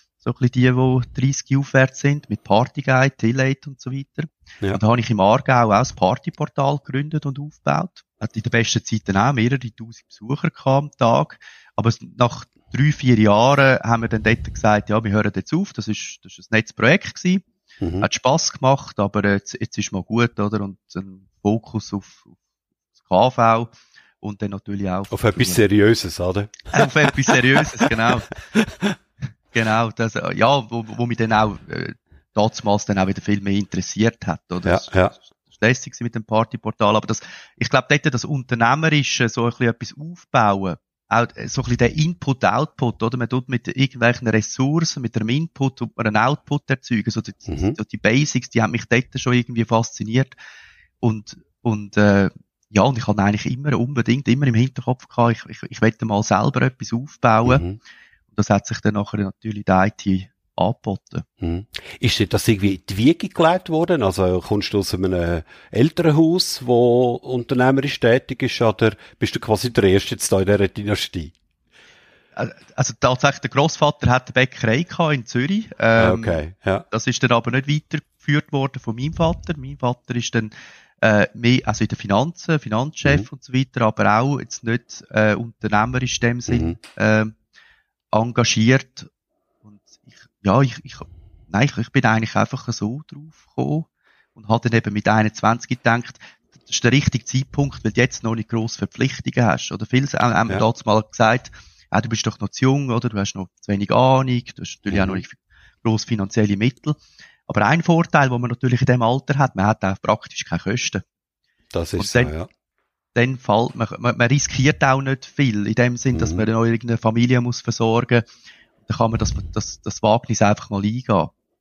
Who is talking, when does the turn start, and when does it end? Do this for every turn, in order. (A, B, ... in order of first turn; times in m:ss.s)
0:00.2-0:17.4 A
0:17.8-0:18.1 B
0:18.0-0:22.3 A
0:23.0-0:25.6 A
0:25.1-0:28.9 B
0:26.7-0:28.3 A
0:29.5-0:50.3 A
0:34.6-0:35.1 B
0:47.5-0:47.8 B
0:51.0-0:57.6 A
0:57.4-0:57.8 B
0:58.3-1:01.2 A
1:01.4-1:11.3 B
1:12.4-1:27.3 A
1:16.0-1:16.8 B
1:26.5-1:26.8 B
1:28.1-1:29.1 A
1:29.6-1:51.0 A
1:44.9-1:45.2 B
1:51.7-1:52.5 B
1:52.0-1:52.3 A
1:53.1-1:58.3 A
1:56.1-1:56.4 B
1:58.8-2:01.3 A